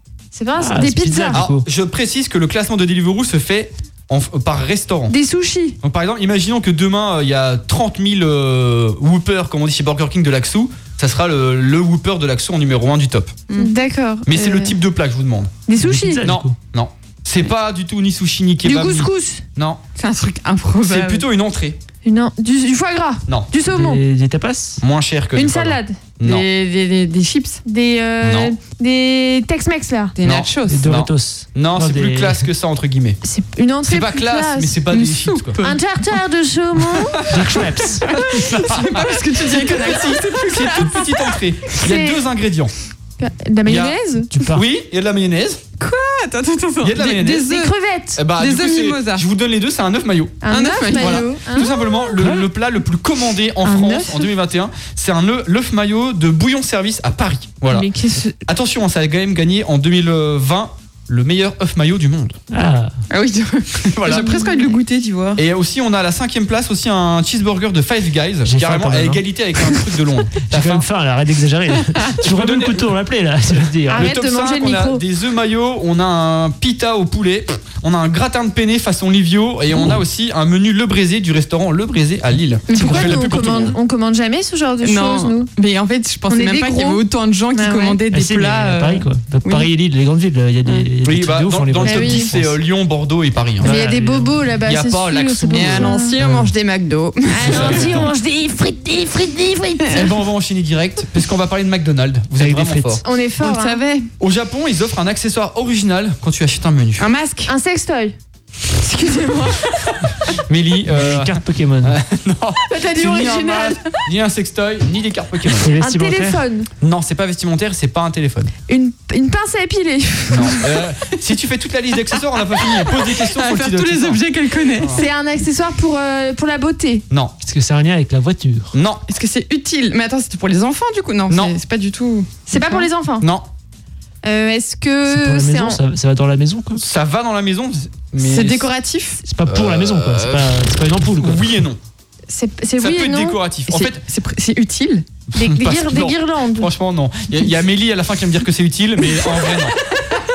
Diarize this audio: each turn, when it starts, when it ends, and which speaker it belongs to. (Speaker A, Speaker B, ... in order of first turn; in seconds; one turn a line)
Speaker A: 0.3-1.4
Speaker B: 0.6-1.6
Speaker C: 1.3-5.1
Speaker A: 5.1-5.8
Speaker C: 5.8-13.4
Speaker A: 13.6-14.8
Speaker C: 14.3-15.6
Speaker A: 15.7-16.2
Speaker B: 15.8-16.6
Speaker C: 16.2-19.8
Speaker A: 18.6-19.4
Speaker D: 20.0-21.2
Speaker C: 20.8-21.8
Speaker A: 22.1-24.0
Speaker B: 23.6-24.8
Speaker C: 24.8-26.4
Speaker A: 25.4-26.0
Speaker D: 26.2-27.6
Speaker A: 27.6-30.1
Speaker C: 28.2-28.5
Speaker D: 30.2-30.9
Speaker C: 30.2-33.2
Speaker B: 30.7-32.5
Speaker A: 33.2-34.8
Speaker C: 33.9-35.6
Speaker D: 34.9-35.8
Speaker A: 35.6-37.2
Speaker B: 37.3-38.1
Speaker D: 38.0-41.3
Speaker C: 38.1-42.7
Speaker A: 41.8-42.2
Speaker A: 43.2-44.3
Speaker C: 43.7-44.0
Speaker B: 44.3-44.6
Speaker C: 44.5-45.6
Speaker D: 45.8-47.7
Speaker C: 46.8-47.5
Speaker A: 47.5-48.2
Speaker C: 48.2-62.4
Speaker D: 48.4-49.2
Speaker A: 50.4-52.0
Speaker D: 50.5-51.3
Speaker B: 52.2-52.5
Speaker A: 53.6-54.3
Speaker A: 57.7-58.4
Speaker B: 62.5-63.0
Speaker D: 63.1-65.4
Speaker C: 63.9-64.5
Speaker C: 65.4-70.9
Speaker B: 68.5-69.2
Speaker B: 70.5-74.1
Speaker C: 72.2-72.9
Speaker A: 73.9-75.0
Speaker C: 73.9-83.8
Speaker A: 82.7-85.5
Speaker D: 84.8-89.7
Speaker A: 86.3-88.0
Speaker B: 88.1-92.5
Speaker C: 91.0-93.8
Speaker A: 91.8-92.3
Speaker B: 93.6-94.4
Speaker A: 93.6-96.1
Speaker C: 94.6-95.9
Speaker D: 95.5-98.1
Speaker B: 96.2-96.5
Speaker A: 97.3-100.1
Speaker C: 97.4-98.1
Speaker C: 99.9-103.0
Speaker B: 102.4-103.0
Speaker A: 103.0-103.8
Speaker D: 103.4-104.1
Speaker C: 104.2-107.1
Speaker D: 107.0-107.5
Speaker A: 107.5-108.1
Speaker A: 108.8-109.7
Speaker C: 110.5-115.7
Speaker B: 110.9-112.0
Speaker A: 112.7-114.0
Speaker B: 115.5-116.4
Speaker A: 115.8-116.7
Speaker C: 116.8-118.5
Speaker A: 118.7-120.7
Speaker C: 120.3-124.2
Speaker D: 122.8-125.0
Speaker C: 124.8-125.0
Speaker A: 124.9-127.0
Speaker B: 127.4-128.7
Speaker C: 128.7-129.0
Speaker D: 129.1-132.9
Speaker C: 131.3-131.6
Speaker A: 132.5-133.3
Speaker C: 133.2-133.5
Speaker A: 134.2-135.8
Speaker B: 135.1-136.8
Speaker C: 136.8-138.7
Speaker D: 138.2-139.2
Speaker B: 139.2-141.5
Speaker C: 139.4-141.8
Speaker A: 142.3-143.4
Speaker C: 142.8-144.0
Speaker D: 143.7-145.1
Speaker C: 145.3-149.8
Speaker A: 145.3-146.7